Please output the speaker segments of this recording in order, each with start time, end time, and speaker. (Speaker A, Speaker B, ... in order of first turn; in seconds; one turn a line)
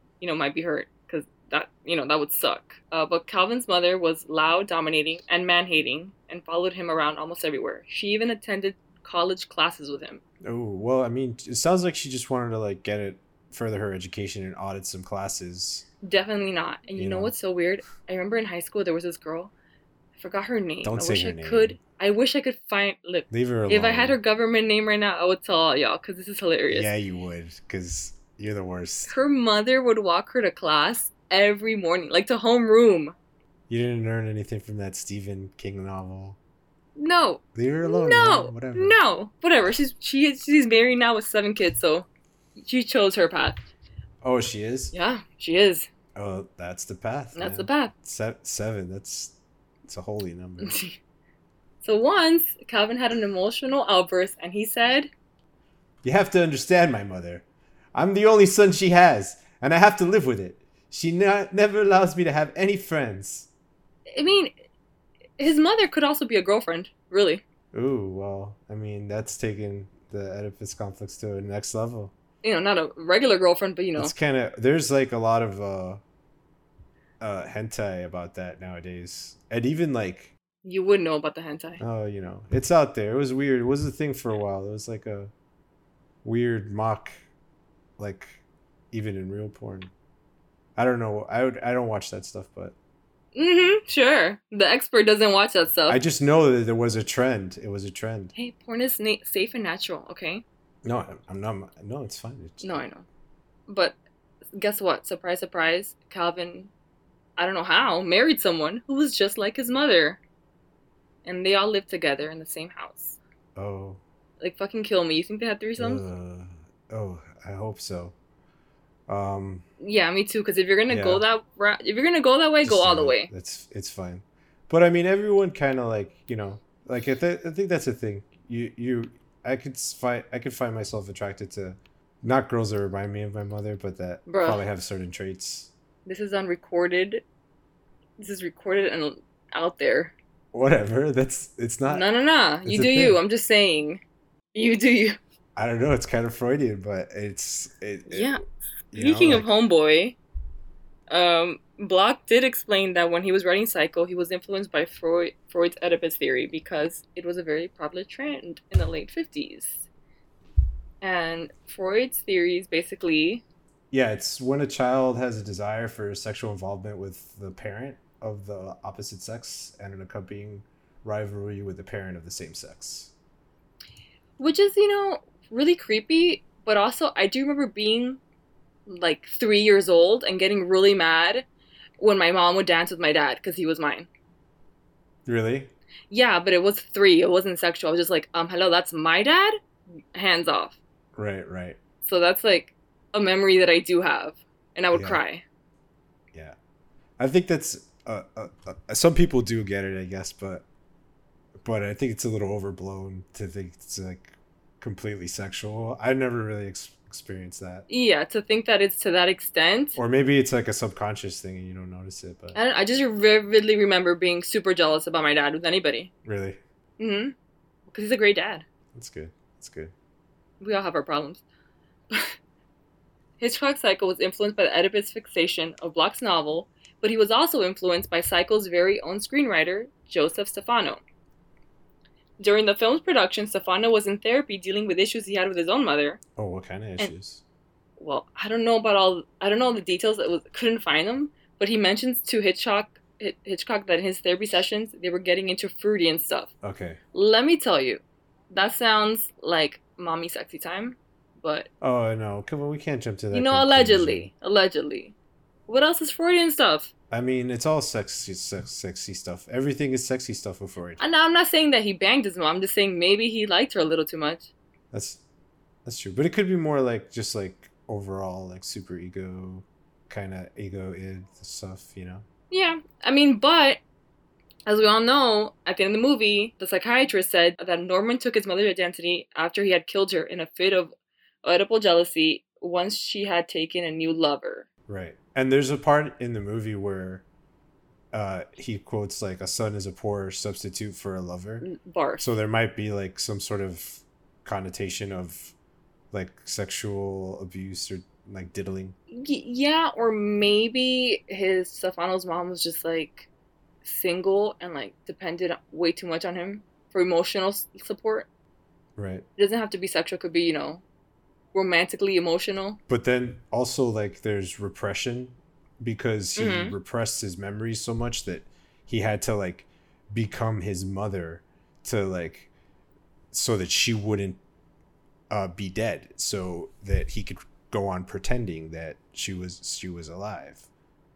Speaker A: 0.2-10.2
Speaker B: 10.4-15.9
Speaker A: 16.0-19.5
Speaker B: 17.0-17.3
Speaker A: 20.2-26.9
Speaker B: 20.8-21.8
Speaker B: 23.3-24.2
Speaker B: 26.7-29.1
Speaker A: 29.1-33.1
Speaker B: 33.7-36.4
Speaker A: 37.0-43.6
Speaker B: 37.5-39.0
Speaker B: 44.2-44.9
Speaker A: 44.9-45.9
Speaker B: 46.1-50.8
Speaker A: 47.4-47.9
Speaker A: 50.6-51.0
Speaker A: 51.8-55.1
Speaker B: 56.0-63.5
Speaker A: 64.1-64.5
Speaker A: 65.4-67.4
Speaker B: 67.7-72.1
Speaker A: 72.4-74.1
Speaker B: 74.0-76.0
Speaker B: 77.2-80.3
Speaker A: 80.6-81.8
Speaker B: 81.8-85.3
Speaker B: 86.2-87.2
Speaker B: 88.0-88.4
Speaker B: 88.9-89.9
Speaker B: 90.8-92.8
Speaker A: 93.3-96.0
Speaker B: 95.9-98.3
Speaker A: 98.3-100.4
Speaker B: 100.8-102.8
Speaker A: 102.6-103.0
Speaker A: 103.7-104.0
Speaker A: 104.5-106.7
Speaker A: 107.4-110.2
Speaker A: 111.2-113.2
Speaker B: 113.5-114.0
Speaker A: 114.4-116.0
Speaker B: 115.8-118.2
Speaker B: 119.1-119.7
Speaker A: 119.8-123.3
Speaker B: 120.9-121.2
Speaker B: 122.6-135.7
Speaker A: 134.3-134.6
Speaker A: 136.1-137.2
Speaker A: 138.2-140.1
Speaker B: 140.5-142.1
Speaker A: 141.9-144.0
Speaker B: 142.7-143.2
Speaker A: 144.5-145.2
Speaker B: 145.6-148.3
Speaker A: 148.1-148.4
Speaker B: 148.9-149.5
Speaker A: 148.9-150.2
Speaker A: 151.1-159.9
Speaker A: 161.0-163.4
Speaker B: 163.9-173.1
Speaker A: 174.4-178.2
Speaker A: 178.9-181.5
Speaker A: 182.0-184.1
Speaker B: 185.2-185.7
Speaker A: 186.1-189.6
Speaker A: 190.1-190.8
Speaker B: 191.2-191.8
Speaker A: 192.0-195.4
Speaker B: 194.9-195.2
Speaker B: 197.2-200.7
Speaker B: 201.6-207.9
Speaker A: 207.9-210.0
Speaker B: 210.0-212.6
Speaker A: 212.5-216.1
Speaker B: 216.2-216.6
Speaker A: 217.0-217.3
Speaker A: 217.9-218.7
Speaker B: 218.9-219.9
Speaker A: 220.6-221.4
Speaker A: 222.1-222.4
Speaker A: 223.4-231.0
Speaker A: 232.4-236.2
Speaker B: 236.4-237.4
Speaker A: 238.0-246.5
Speaker B: 246.6-247.0
Speaker A: 247.1-251.7
Speaker B: 251.8-254.3
Speaker A: 253.3-255.1
Speaker A: 255.7-256.9
Speaker B: 257.1-261.0
Speaker A: 261.0-264.5
Speaker B: 264.9-265.2
Speaker B: 265.9-272.2
Speaker A: 272.5-273.8
Speaker A: 274.7-284.7
Speaker B: 284.9-287.2
Speaker B: 288.1-291.7
Speaker A: 291.6-292.3
Speaker B: 292.2-295.5
Speaker B: 296.1-299.0
Speaker A: 299.1-303.3
Speaker A: 303.8-308.3
Speaker B: 309.0-309.2
Speaker A: 309.4-310.8
Speaker A: 311.5-312.8
Speaker B: 312.9-322.5
Speaker A: 316.4-316.8
Speaker B: 323.3-324.4
Speaker B: 325.3-330.7